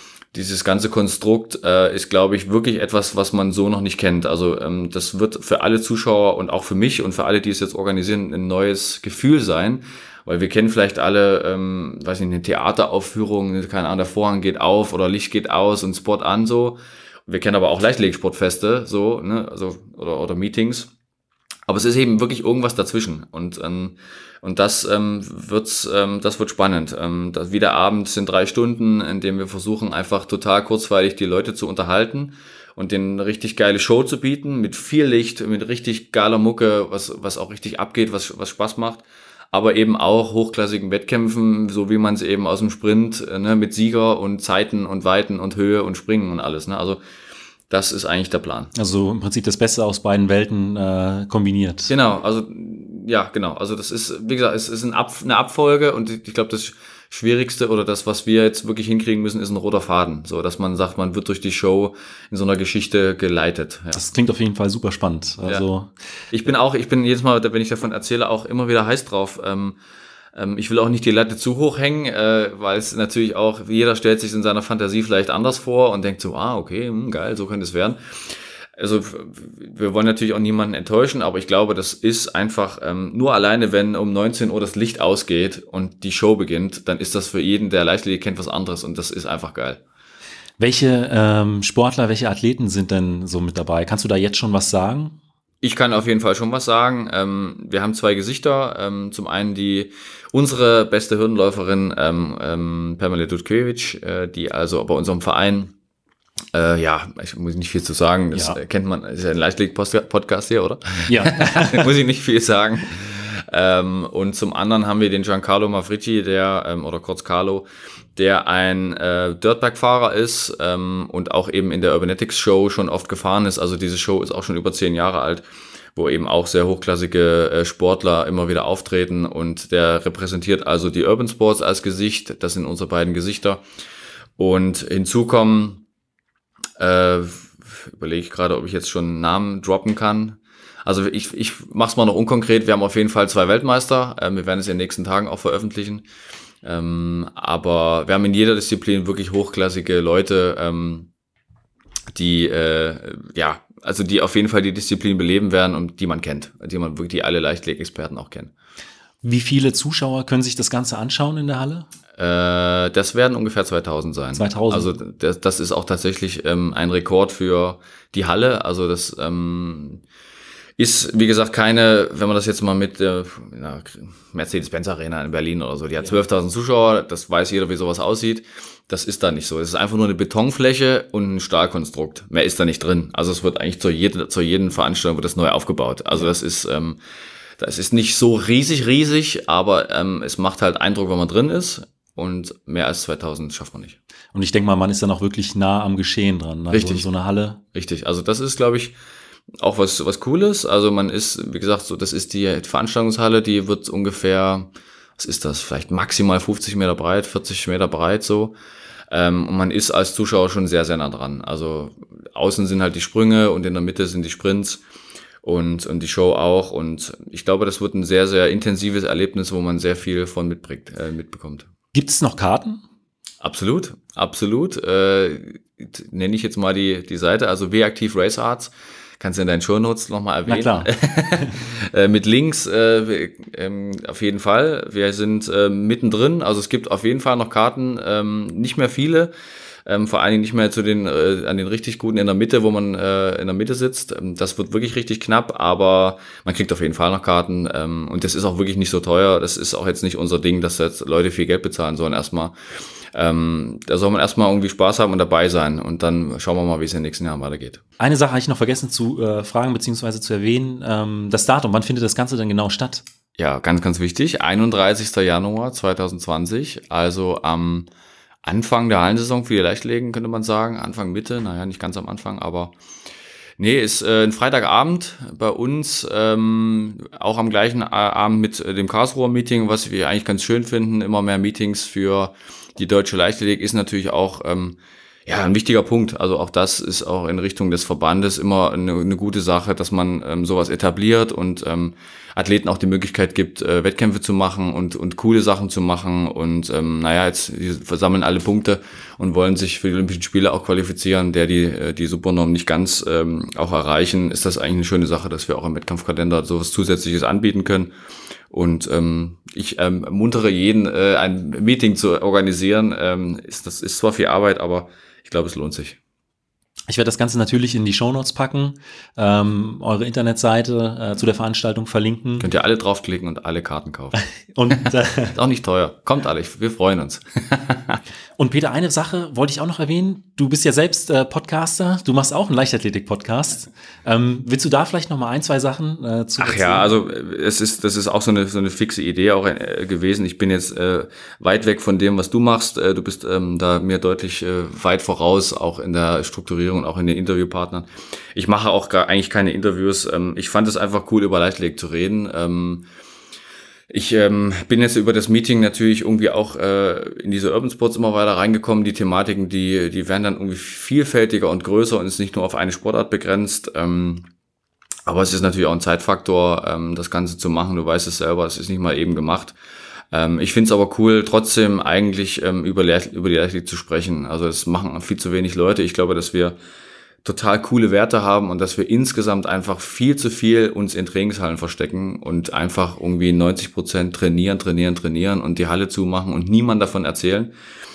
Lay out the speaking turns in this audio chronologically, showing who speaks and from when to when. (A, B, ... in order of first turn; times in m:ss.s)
0:00.3-0:20.9 A
0:21.7-0:47.0 A
0:47.7-0:48.7 A
0:48.7-0:51.9 B
0:51.9-1:04.0 A
1:03.9-1:05.9 B
1:06.3-1:09.8 A
1:10.3-1:18.0 A
1:18.8-1:29.8 A
1:30.6-1:35.2 B
1:35.6-1:45.7 A
1:46.5-2:05.4 A
1:48.3-1:48.6 B
1:51.1-1:51.9 B
2:06.0-2:13.6 A
2:14.4-2:15.8 A
2:16.8-2:26.0 A
2:26.6-2:31.1 A
2:32.1-2:38.5 A
2:39.2-2:41.9 B
2:42.2-2:50.0 A
2:44.3-2:44.9 B
2:50.8-3:07.0 A
3:07.6-3:14.0 A
3:14.3-3:17.6 B
3:16.7-3:17.1 A
3:17.7-3:18.9 A
3:19.6-3:28.5 A
3:29.1-3:34.8 A
3:35.4-3:41.7 A
3:41.9-3:42.8 B
3:43.4-3:59.3 A
3:50.4-3:51.5 B
3:59.8-4:12.5 A
4:13.1-4:17.8 A
4:18.0-4:23.0 B
4:23.4-4:27.9 A
4:28.4-4:32.7 A
4:33.6-5:07.9 A
5:08.5-5:16.0 A
5:16.9-5:22.5 B
5:22.4-5:24.2 A
5:24.1-5:25.4 B
5:25.3-5:28.0 A
5:28.4-5:36.9 B
5:36.4-5:52.8 A
5:53.9-6:04.3 A
6:05.1-6:09.6 A
6:10.1-6:16.6 A
6:17.2-6:27.5 A